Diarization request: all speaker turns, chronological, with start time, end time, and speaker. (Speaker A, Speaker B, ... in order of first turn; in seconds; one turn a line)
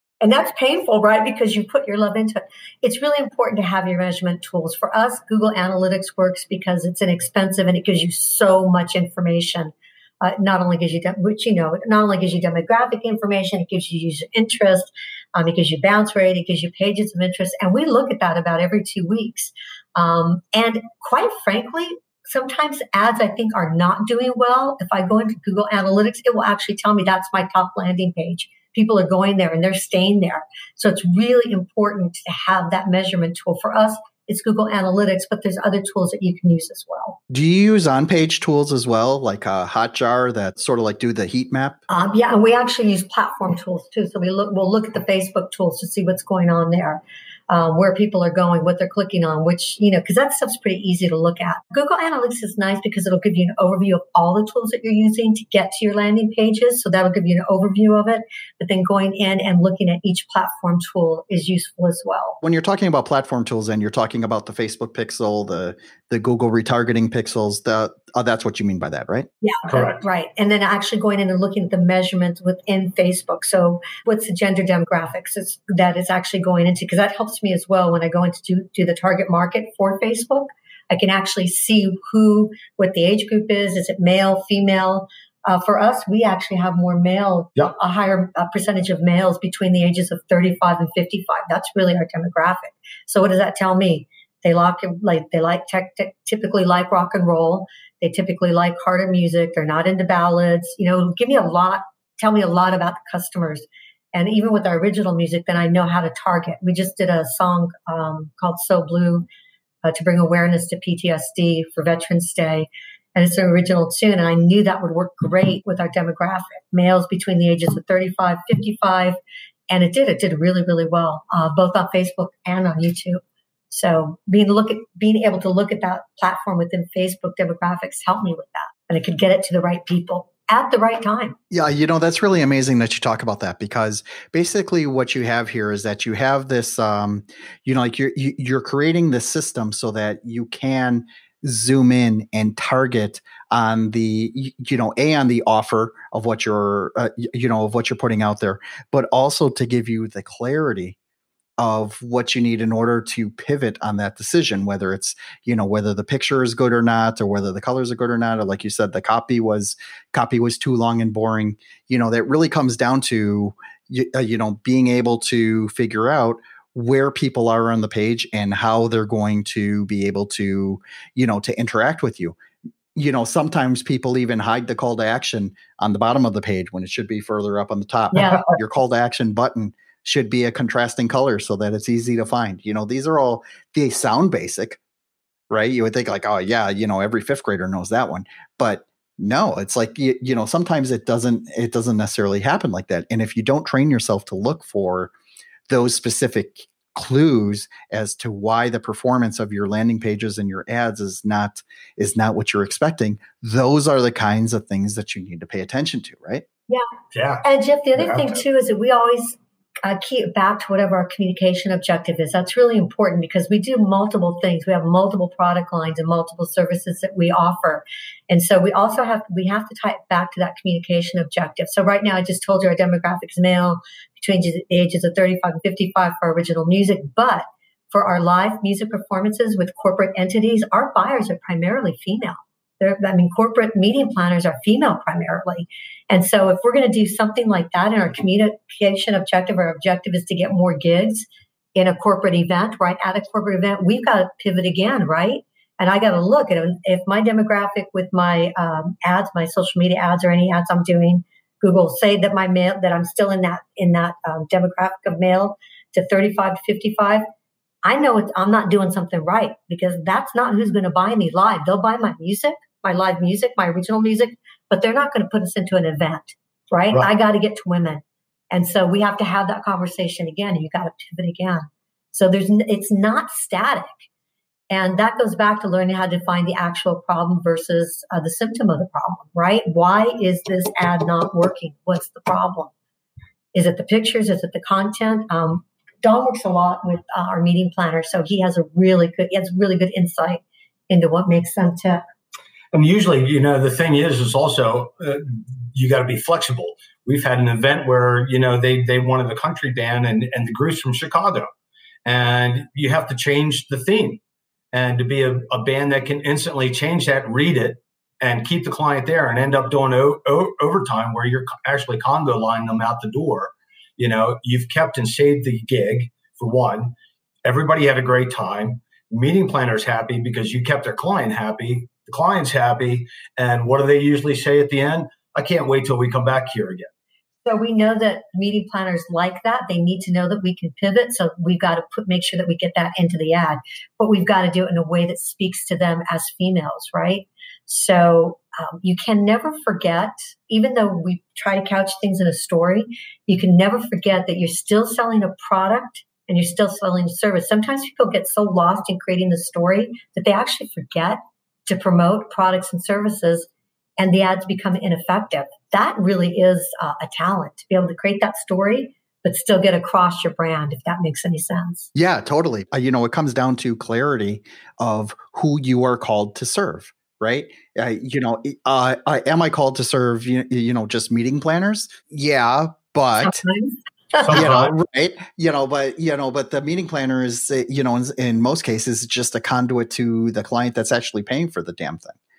Speaker A: 0.2-37.2
Speaker B: 37.3-41.8
Speaker A: 41.9-62.4
Speaker B: 62.4-69.3
Speaker A: 69.4-109.3
Speaker C: 69.7-70.0
Speaker A: 109.8-119.2
Speaker A: 119.7-131.4
Speaker B: 131.5-151.0
Speaker B: 151.6-172.4
Speaker B: 172.9-184.8
Speaker A: 178.1-178.5
Speaker B: 185.5-195.1
Speaker B: 195.7-206.4
Speaker C: 207.1-207.4
Speaker A: 207.4-257.2
Speaker C: 208.0-208.4
Speaker A: 257.9-273.9
Speaker A: 274.7-282.7
Speaker A: 283.5-292.0
Speaker C: 292.7-301.5
Speaker C: 302.1-304.2
Speaker C: 304.7-326.9
Speaker A: 327.4-361.9
Speaker B: 361.9-373.4
Speaker A: 373.2-374.4
Speaker C: 374.2-374.8
Speaker B: 374.3-382.2